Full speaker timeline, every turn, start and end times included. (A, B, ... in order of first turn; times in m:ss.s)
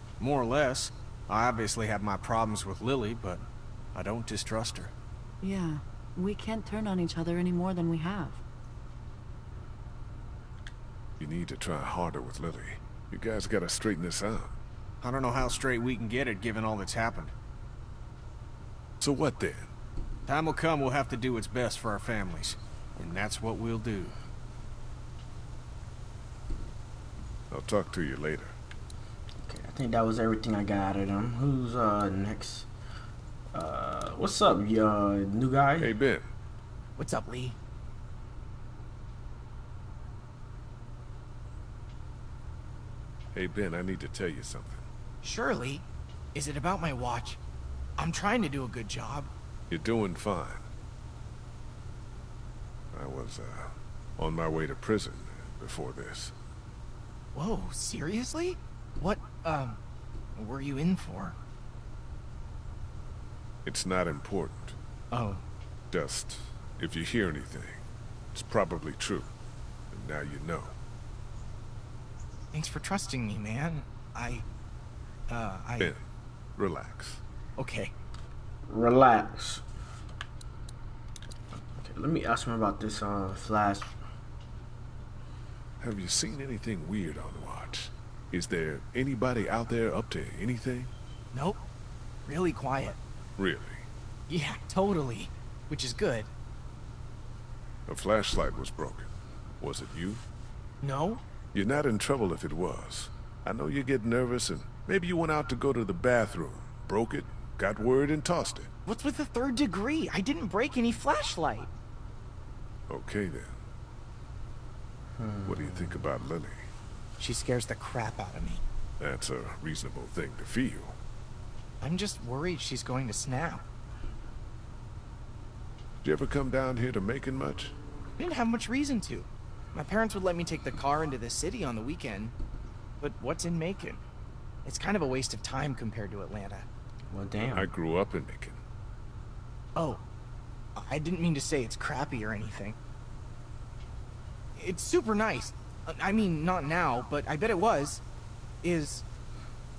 0:00.2-0:04.9 A
0:05.4-0:08.4 B
0:11.2-0:14.6 C
0:15.0-0:17.3 A
0:19.0-0:19.7 C
0:20.3-0:24.1 A
0:27.5-0:28.6 C
0:29.4-0:32.7 D
0:33.5-0:35.9 D
0:35.8-0:36.3 C
0:37.0-0:37.6 E
0:43.3-0:44.8 C
0:45.2-0:47.4 E
0:48.0-0:49.3 E
0:49.7-0:50.6 C
0:52.9-0:56.3 C
0:57.3-0:59.8 E
1:00.4-1:01.4 E
1:03.6-1:04.8 C
1:05.1-1:05.4 E
1:05.9-1:09.3 C
1:09.9-1:10.8 C
1:12.5-1:14.4 E
1:15.3-1:15.9 E
1:16.6-1:17.2 C
1:17.6-1:17.9 E
1:18.7-1:19.6 D
1:21.7-1:24.0 D
1:25.8-1:30.9 C
1:31.3-1:31.6 E
1:32.2-1:33.0 E
1:33.4-1:33.8 C
1:34.3-1:36.3 E
1:37.9-1:40.2 C
1:40.8-1:41.2 E
1:41.5-1:48.7 C
1:48.8-1:51.7 E
1:52.9-1:53.6 C
1:55.2-1:56.1 D
1:55.4-1:56.7 C
1:57.2-1:58.6 E
1:59.0-2:01.0 C
2:01.8-2:03.6 E
2:06.0-2:07.7 C
2:08.2-2:12.3 E
2:13.0-2:14.0 E
2:14.6-2:16.7 E
2:17.1-2:17.7 D
2:17.5-2:18.6 C
2:19.7-2:20.0 E
2:20.7-2:22.8 E
2:24.6-2:28.0 E
2:28.6-2:29.0 E